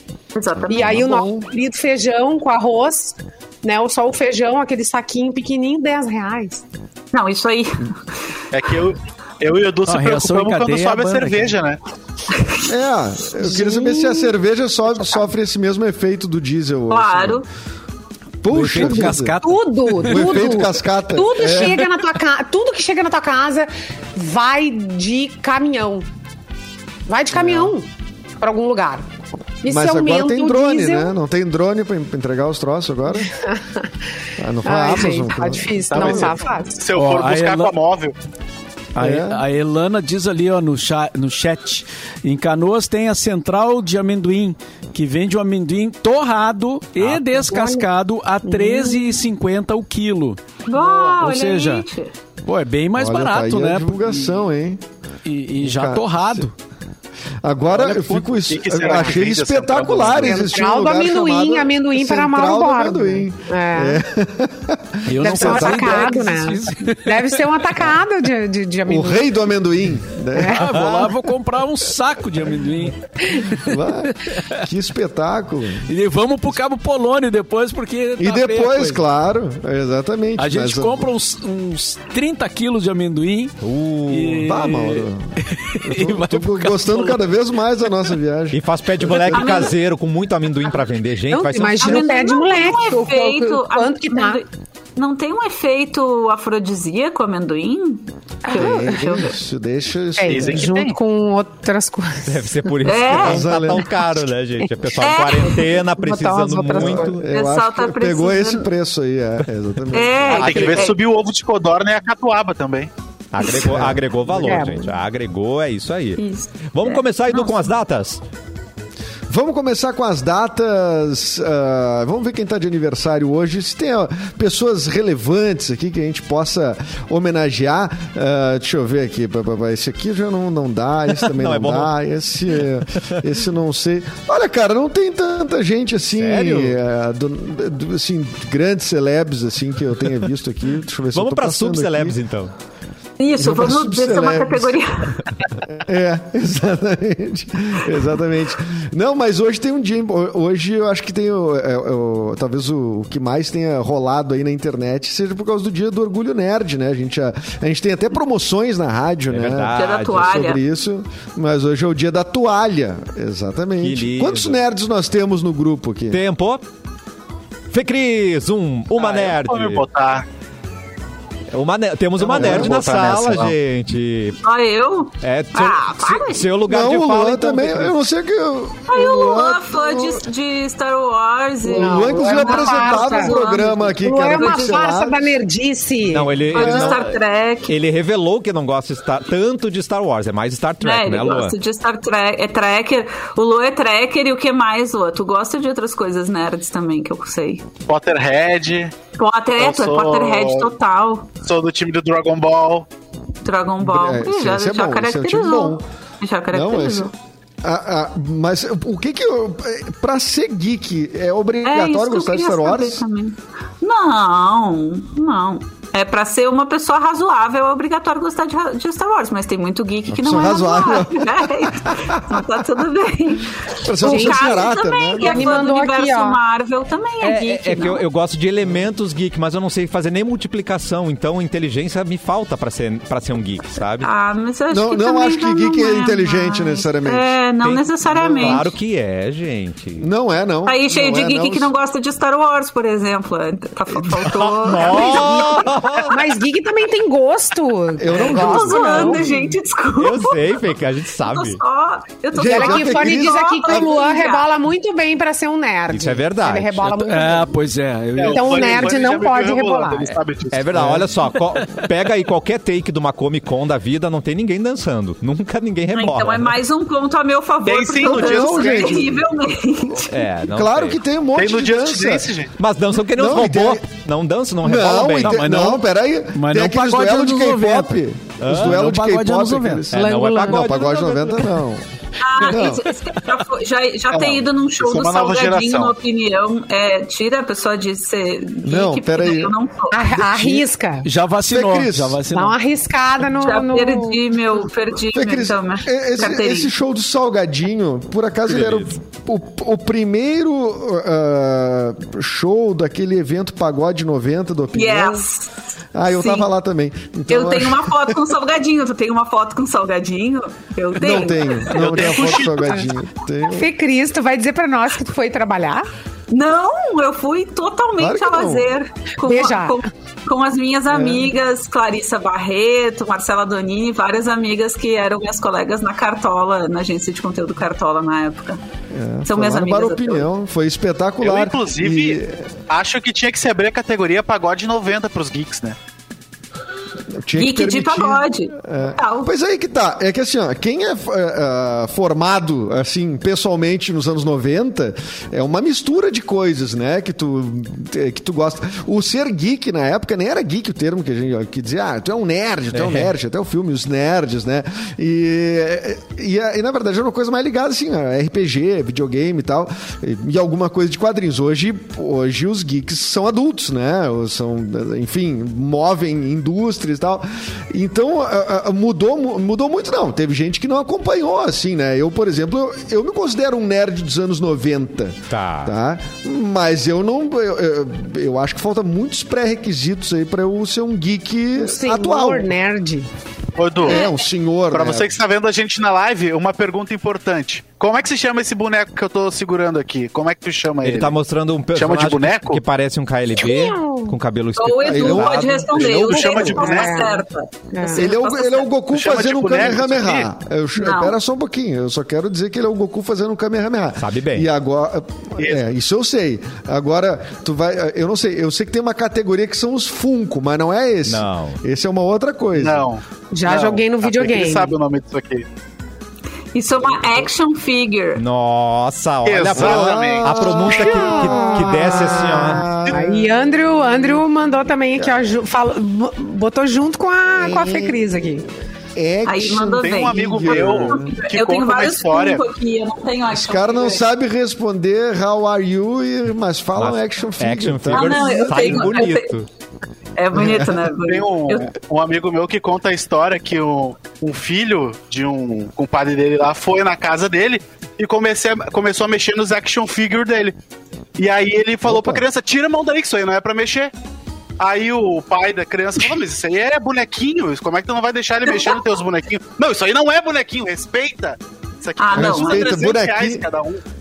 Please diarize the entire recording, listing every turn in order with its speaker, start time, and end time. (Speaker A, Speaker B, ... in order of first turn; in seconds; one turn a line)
Speaker A: 0.3-1.0
Speaker B: 0.6-1.5
Speaker C: 0.7-6.6
Speaker A: 7.1-8.0
Speaker D: 8.5-11.8
Speaker E: 9.9-11.6
Speaker A: 12.3-12.7
Speaker B: 12.7-17.4
Speaker C: 13.4-14.3
Speaker A: 16.9-17.5
Speaker B: 18.4-19.4
Speaker E: 18.5-20.6
Speaker C: 18.8-26.1
Speaker B: 20.0-21.9
Speaker C: 27.1-27.9
Speaker B: 27.3-27.8
Speaker C: 28.4-29.1
Speaker C: 29.6-31.1
Speaker B: 29.7-33.3
Speaker C: 33.2-33.9
Speaker B: 34.4-36.4
Speaker C: 34.6-36.8
Speaker D: 35.9-38.1
Speaker E: 36.9-37.7
Speaker E: 39.0-51.9
Speaker B: 39.0-39.4
Speaker C: 47.4-47.9
Speaker C: 48.5-49.0
Speaker A: 50.7-52.1
Speaker E: 52.5-54.5
Speaker B: 53.0-54.8
Speaker E: 55.2-56.5
Speaker B: 55.6-56.5
Speaker B: 57.4-66.1
Speaker E: 57.7-58.5
Speaker D: 58.5-60.3
Speaker C: 60.2-64.0
Speaker E: 65.0-67.4
Speaker C: 65.2-69.3
Speaker B: 68.9-70.9
Speaker C: 70.4-70.6
Speaker E: 70.4-74.6
Speaker F: 70.7-71.1
Speaker B: 73.5-75.9
Speaker E: 75.8-79.0
Speaker B: 78.2-81.1
Speaker E: 80.4-87.3
Speaker F: 83.6-84.5
Speaker B: 84.4-89.6
Speaker F: 88.5-92.1
Speaker A: 89.3-89.7
Speaker C: 91.3-94.4
Speaker A: 91.8-99.3
Speaker C: 98.5-99.0
Speaker B: 98.5-100.7
Speaker C: 100.2-102.8
Speaker D: 100.3-101.0
Speaker F: 102.3-107.3
Speaker A: 102.8-103.4
Speaker B: 103.1-103.9
Speaker A: 105.0-105.7
Speaker C: 105.9-107.1
Speaker B: 106.7-110.6
Speaker A: 107.3-108.7
Speaker A: 109.9-111.0
Speaker F: 110.3-110.9
Speaker D: 110.3-112.9
Speaker F: 113.3-118.2
Speaker B: 113.5-114.7
Speaker C: 114.4-114.9
Speaker A: 116.2-117.6
Speaker B: 119.3-142.2
Speaker F: 131.2-131.9
Speaker F: 136.2-136.8
Speaker F: 141.1-142.5
Speaker A: 143.2-145.4
Speaker B: 143.4-144.8
Speaker B: 145.7-166.2
Speaker F: 159.3-160.4
Speaker A: 159.7-160.6
Speaker F: 163.8-164.6
Speaker F: 166.1-166.6
Speaker F: 167.7-169.8
Speaker D: 168.9-170.3
Speaker F: 171.5-174.4
Speaker B: 172.3-173.5
Speaker A: 174.4-176.5
Speaker F: 175.2-178.0
Speaker B: 176.7-180.2
Speaker A: 178.9-185.0
Speaker B: 181.6-185.3
Speaker C: 181.7-183.4
Speaker C: 184.0-186.5
Speaker F: 186.1-191.6
Speaker A: 186.5-187.8
Speaker B: 186.5-187.0
Speaker A: 190.8-197.7
Speaker D: 197.9-199.0
Speaker A: 199.2-201.3
Speaker D: 199.6-200.7
Speaker D: 201.4-202.9
Speaker A: 203.4-207.1
Speaker B: 203.8-205.8
Speaker B: 206.5-207.1
Speaker B: 207.6-213.0
Speaker A: 211.6-228.1
Speaker B: 220.1-222.4
Speaker B: 223.8-225.6
Speaker C: 224.0-226.4
Speaker F: 227.2-234.1
Speaker A: 234.0-238.7
Speaker B: 234.7-237.3
Speaker F: 237.6-240.1
Speaker B: 238.2-238.7
Speaker B: 240.0-241.7
Speaker A: 240.7-245.7
Speaker B: 243.9-244.9
Speaker F: 244.6-246.2
Speaker C: 246.1-249.2
Speaker B: 248.0-249.6
Speaker A: 248.1-254.5
Speaker F: 250.0-251.6
Speaker B: 252.3-253.9
Speaker C: 252.4-257.5
Speaker F: 255.9-257.0
Speaker E: 257.0-258.9
Speaker D: 258.2-260.8
Speaker C: 258.3-260.2
Speaker F: 260.5-266.6
Speaker B: 260.8-261.1
Speaker E: 261.6-261.8
Speaker A: 265.9-270.2
Speaker D: 267.6-269.0
Speaker B: 268.1-269.2
Speaker F: 270.1-271.0
Speaker B: 270.5-272.3
Speaker D: 271.4-272.5
Speaker F: 272.6-275.5
Speaker B: 273.1-273.9
Speaker B: 274.6-281.9
Speaker E: 275.2-279.9
Speaker F: 278.4-278.8
Speaker F: 279.9-281.5
Speaker C: 279.9-280.9
Speaker A: 282.2-290.1
Speaker B: 282.4-282.9
Speaker D: 284.1-285.9
Speaker B: 288.6-289.6
Speaker C: 289.9-291.1
Speaker B: 290.2-290.6
Speaker E: 291.0-292.6
Speaker B: 291.5-292.2
Speaker C: 292.3-294.2
Speaker A: 293.4-296.7
Speaker B: 295.1-305.3
Speaker F: 298.5-298.9
Speaker A: 304.7-305.5
Speaker B: 305.9-308.2
Speaker A: 306.1-306.5
Speaker A: 307.3-311.9
Speaker B: 311.0-313.7
Speaker D: 311.7-312.9
Speaker C: 313.5-315.9
Speaker A: 316.3-328.6
Speaker B: 318.0-318.7
Speaker C: 319.2-319.9
Speaker B: 320.9-321.3
Speaker B: 328.9-332.5
Speaker A: 329.3-330.3
Speaker D: 331.2-335.8
Speaker B: 337.1-382.5
Speaker A: 337.4-339.3
Speaker F: 352.7-353.1
Speaker F: 375.3-375.7
Speaker C: 381.6-383.1
Speaker D: 383.6-384.1
Speaker B: 383.8-385.1
Speaker D: 384.7-391.2
Speaker F: 390.8-396.2
Speaker D: 391.7-392.6
Speaker C: 393.4-394.2
Speaker A: 394.6-398.7
Speaker B: 394.8-396.1
Speaker D: 395.7-397.1
Speaker C: 396.5-398.1
Speaker B: 397.9-412.9
Speaker D: 398.9-400.3
Speaker A: 400.8-401.2
Speaker F: 404.0-404.5
Speaker F: 411.1-411.6
Speaker D: 412.6-415.5
Speaker C: 413.3-414.8
Speaker A: 416.5-418.2
Speaker F: 418.1-422.8
Speaker D: 419.2-420.4
Speaker B: 419.6-423.2
Speaker C: 420.6-428.5
Speaker B: 427.3-428.3
Speaker B: 428.9-431.2
Speaker A: 429.2-434.1
Speaker D: 429.8-432.4
Speaker B: 433.3-439.1
Speaker F: 436.8-439.5
Speaker A: 437.9-439.3
Speaker A: 440.2-441.8
Speaker B: 440.4-440.8
Speaker D: 441.0-450.6
Speaker D: 451.2-453.9
Speaker B: 451.9-452.2
Speaker D: 454.6-463.8
Speaker A: 462.0-462.7
Speaker B: 462.1-463.4